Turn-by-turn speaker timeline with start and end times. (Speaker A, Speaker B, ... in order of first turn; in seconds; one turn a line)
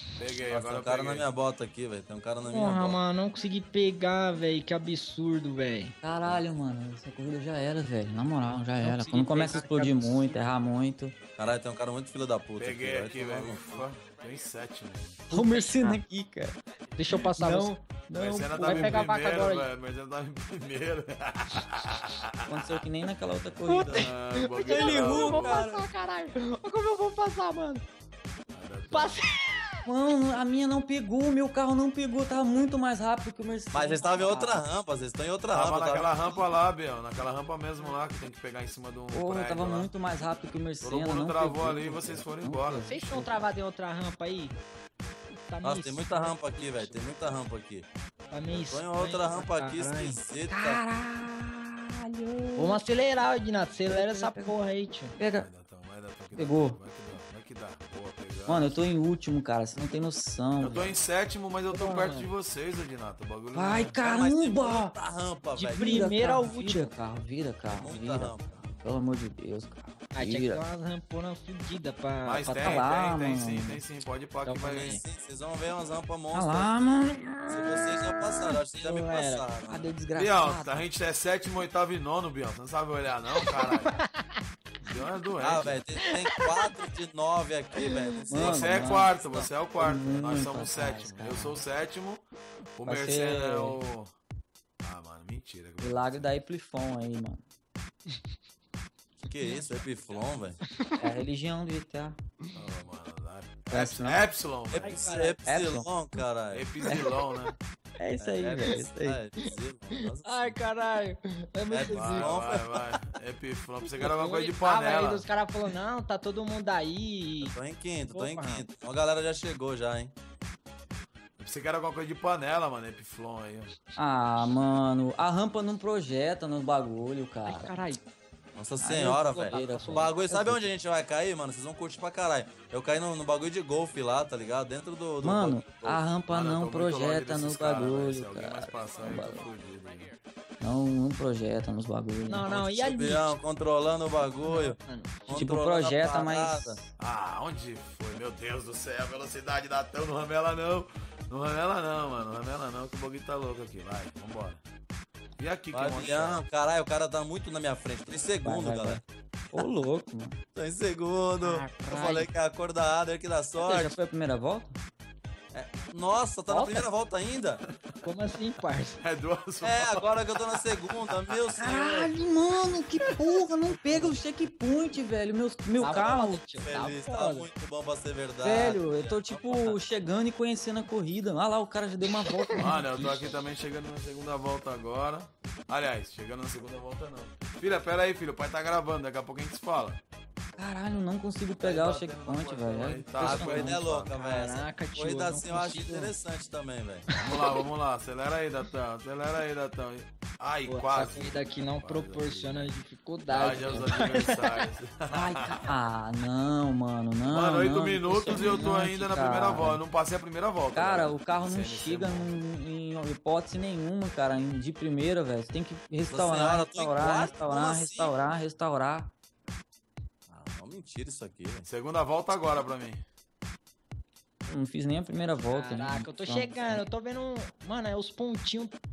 Speaker A: 0.2-1.3
Speaker B: 0.5-3.0
Speaker C: 2.5-5.9
Speaker D: 6.0-11.1
Speaker C: 8.8-10.4
Speaker B: 11.4-13.8
Speaker A: 12.6-15.2
Speaker D: 15.3-16.6
Speaker C: 15.3-16.0
Speaker C: 17.0-17.8
Speaker D: 17.1-19.1
Speaker A: 18.1-22.8
Speaker C: 18.6-19.7
Speaker D: 22.5-24.1
Speaker C: 23.6-27.8
Speaker A: 23.9-25.7
Speaker D: 24.7-25.9
Speaker A: 28.5-29.2
Speaker C: 28.9-29.9
Speaker D: 29.9-34.6
Speaker B: 33.7-36.1
Speaker A: 35.5-39.9
Speaker D: 39.1-43.4
Speaker A: 40.8-43.3
Speaker C: 42.9-44.6
Speaker C: 45.5-47.0
Speaker B: 45.6-47.9
Speaker C: 48.3-50.2
Speaker B: 48.5-50.8
Speaker D: 50.5-52.8
Speaker C: 52.6-55.1
Speaker D: 53.9-54.5
Speaker D: 55.2-55.5
Speaker A: 55.4-58.8
Speaker D: 56.3-56.8
Speaker D: 58.5-61.0
Speaker A: 60.6-64.0
Speaker D: 61.7-62.3
Speaker D: 63.5-64.9
Speaker B: 64.0-66.1
Speaker D: 65.5-70.6
Speaker C: 65.7-66.9
Speaker B: 67.7-68.6
Speaker C: 70.1-72.8
Speaker A: 72.2-75.0
Speaker D: 72.4-73.8
Speaker C: 74.5-75.0
Speaker B: 74.6-76.9
Speaker D: 76.3-78.2
Speaker B: 77.5-79.8
Speaker C: 78.7-79.5
Speaker D: 79.7-80.8
Speaker A: 80.1-84.0
Speaker A: 84.8-85.8
Speaker B: 85.4-89.1
Speaker C: 86.0-86.4
Speaker C: 87.8-88.1
Speaker D: 88.3-89.1
Speaker A: 88.4-92.2
Speaker D: 89.8-91.6
Speaker A: 92.8-94.1
Speaker D: 92.8-93.8
Speaker A: 94.8-96.2
Speaker D: 95.8-97.4
Speaker B: 99.3-100.6
Speaker D: 101.0-102.2
Speaker A: 102.5-105.1
Speaker D: 103.7-104.2
Speaker B: 104.7-106.7
Speaker C: 104.8-105.4
Speaker D: 105.4-105.9
Speaker A: 106.5-107.5
Speaker D: 108.0-109.2
Speaker B: 108.2-110.6
Speaker C: 109.9-112.4
Speaker B: 111.7-113.0
Speaker A: 111.9-115.3
Speaker C: 113.8-117.5
Speaker B: 117.4-120.1
Speaker C: 118.1-118.6
Speaker A: 121.4-123.8
Speaker D: 124.0-127.7
Speaker C: 127.4-128.0
Speaker B: 128.5-136.0
Speaker D: 128.8-130.6
Speaker C: 129.2-130.2
Speaker D: 135.2-139.4
Speaker A: 136.3-140.1
Speaker D: 140.6-142.5
Speaker C: 142.3-143.4
Speaker B: 142.4-146.8
Speaker C: 144.4-145.3
Speaker D: 145.3-146.8
Speaker A: 147.0-154.6
Speaker A: 155.4-156.4
Speaker B: 155.7-159.0
Speaker D: 158.4-160.4
Speaker B: 160.5-163.9
Speaker C: 161.4-162.2
Speaker D: 161.9-162.2
Speaker D: 163.6-164.8
Speaker B: 165.5-167.6
Speaker C: 166.5-166.8
Speaker C: 168.0-169.0
Speaker A: 169.0-171.5
Speaker B: 169.6-172.1
Speaker D: 171.6-176.4
Speaker B: 173.9-174.2
Speaker C: 175.8-177.5
Speaker B: 175.9-179.8
Speaker D: 178.4-183.2
Speaker C: 182.4-182.7
Speaker A: 182.6-190.0
Speaker D: 190.6-193.8
Speaker A: 191.6-194.1
Speaker B: 193.2-197.1
Speaker C: 194.1-196.1
Speaker C: 197.1-197.6
Speaker A: 197.2-202.7
Speaker C: 200.7-204.7
Speaker A: 203.3-205.7
Speaker D: 205.1-209.8
Speaker A: 207.3-212.4
Speaker D: 210.7-219.1
Speaker B: 216.1-218.2
Speaker B: 220.3-221.7
Speaker A: 221.6-223.0
Speaker D: 224.5-226.8
Speaker C: 225.4-228.7